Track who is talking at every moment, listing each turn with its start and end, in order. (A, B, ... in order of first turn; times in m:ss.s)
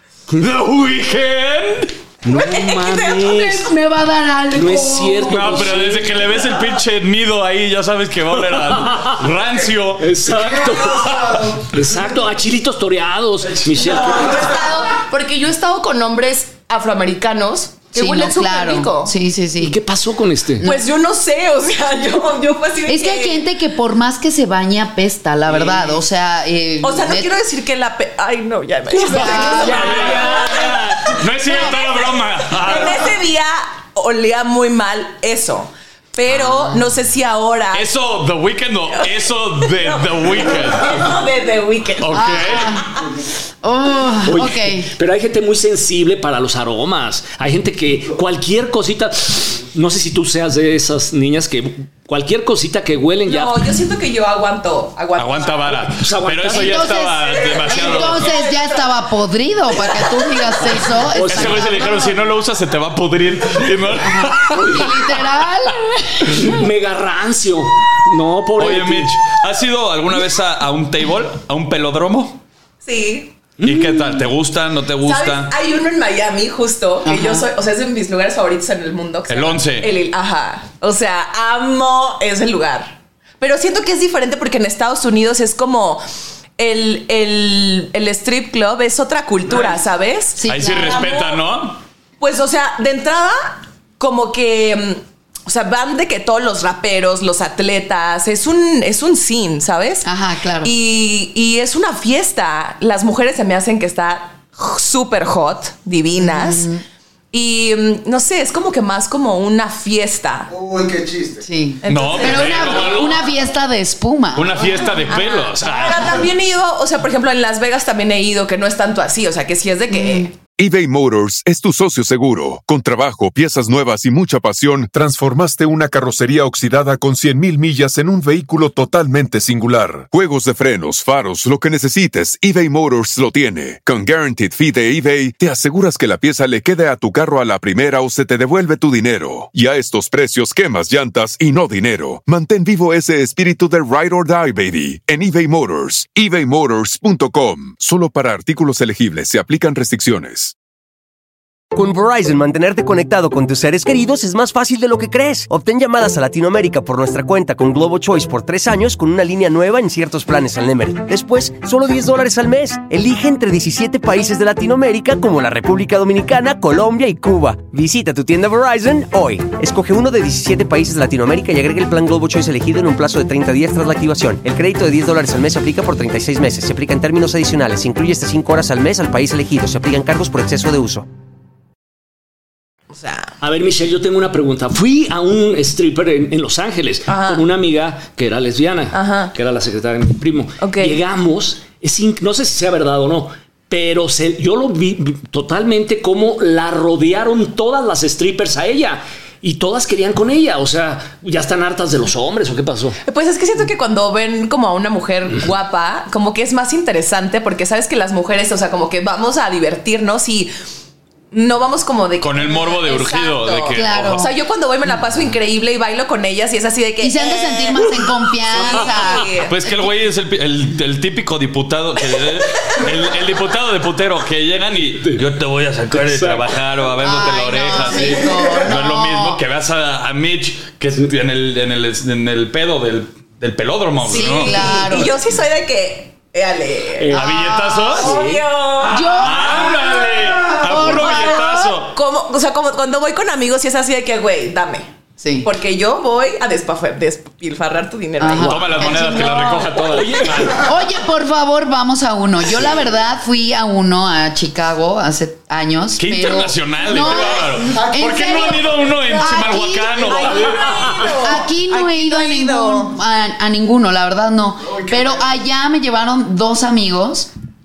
0:00.3-0:02.0 A
0:02.2-0:03.7 B
0:02.3-0:03.2 C
0:03.2-0:05.7 D
0:04.5-0:06.3 B
0:05.3-0:10.1 A
0:08.5-0:09.2 B
0:10.0-0:14.5 B
0:10.2-0:12.3 E
0:13.6-0:14.4 E
0:13.8-0:19.1 C
0:17.9-0:19.8 D
0:19.6-0:20.6 B
0:20.6-0:20.8 D
0:20.6-0:23.4 C
0:22.9-0:27.3 D
0:25.6-0:25.9 B
0:26.8-0:37.9 C
0:29.1-0:29.8 D
0:29.1-0:31.2 B
0:29.6-0:33.1 A
0:37.7-0:41.1 A
0:38.9-0:43.0 C
0:42.0-0:42.7 A
0:42.1-0:42.9 D
0:43.6-0:44.9 D
0:44.3-0:53.7 B
0:53.3-0:55.9 C
0:55.2-0:58.3 A
0:55.9-0:57.0 B
0:56.5-1:02.2 D
0:57.3-0:58.8 C
1:01.0-1:01.9 B
1:01.3-1:04.9 A
1:04.0-1:06.6 D
1:04.6-1:04.9 B
1:06.3-1:09.2 B
1:08.6-1:12.4 A
1:12.8-1:13.4 C
1:13.6-1:14.2 B
1:13.6-1:15.5 A
1:15.0-1:26.0 C
1:17.0-1:17.5 D
1:19.3-1:19.9 A
1:26.6-1:31.4 C
1:30.4-1:31.2 D
1:30.5-1:31.8 A
1:32.2-1:40.1 C
1:40.0-1:40.7 D
1:40.6-1:46.7 C
1:46.2-1:46.8 D
1:47.3-1:50.5 C
1:50.5-1:51.5 E
1:51.4-1:54.7 D
1:51.8-1:53.0 C
1:51.9-1:53.2 A
1:54.4-1:56.3 A
1:55.1-2:00.3 C
1:59.9-2:00.3 D
2:00.6-2:30.5 F
2:31.7-3:01.1 G
3:02.9-3:03.3 C
3:03.4-3:23.0 B
3:07.1-3:07.5 C
3:08.9-3:09.3 C
3:10.6-3:11.0 C
3:23.0-3:30.5 C
3:31.3-3:39.6 C
3:32.2-3:34.3 A
3:33.7-3:34.3 D
3:37.0-3:39.9 D
3:39.5-3:54.8 A
3:45.9-3:46.6 B
3:47.0-3:49.4 D
3:54.1-3:57.2 C
3:54.1-3:55.2 D
3:57.0-3:57.4 B
3:57.1-3:58.0 D
3:57.1-3:58.1 A
3:58.0-4:04.9 C
3:58.0-3:58.4 B
3:58.8-3:59.8 D
3:58.9-4:01.9 A
4:00.6-4:01.5 D
4:05.2-4:05.5 D
4:05.4-4:09.0 C
4:08.2-4:09.8 D
4:08.4-4:10.7 A
4:09.0-4:10.7 B
4:10.5-4:27.3 D
4:16.0-4:21.0 A
4:17.7-4:18.3 E
4:18.9-4:19.2 C
4:20.1-4:23.0 C
4:24.7-4:25.3 E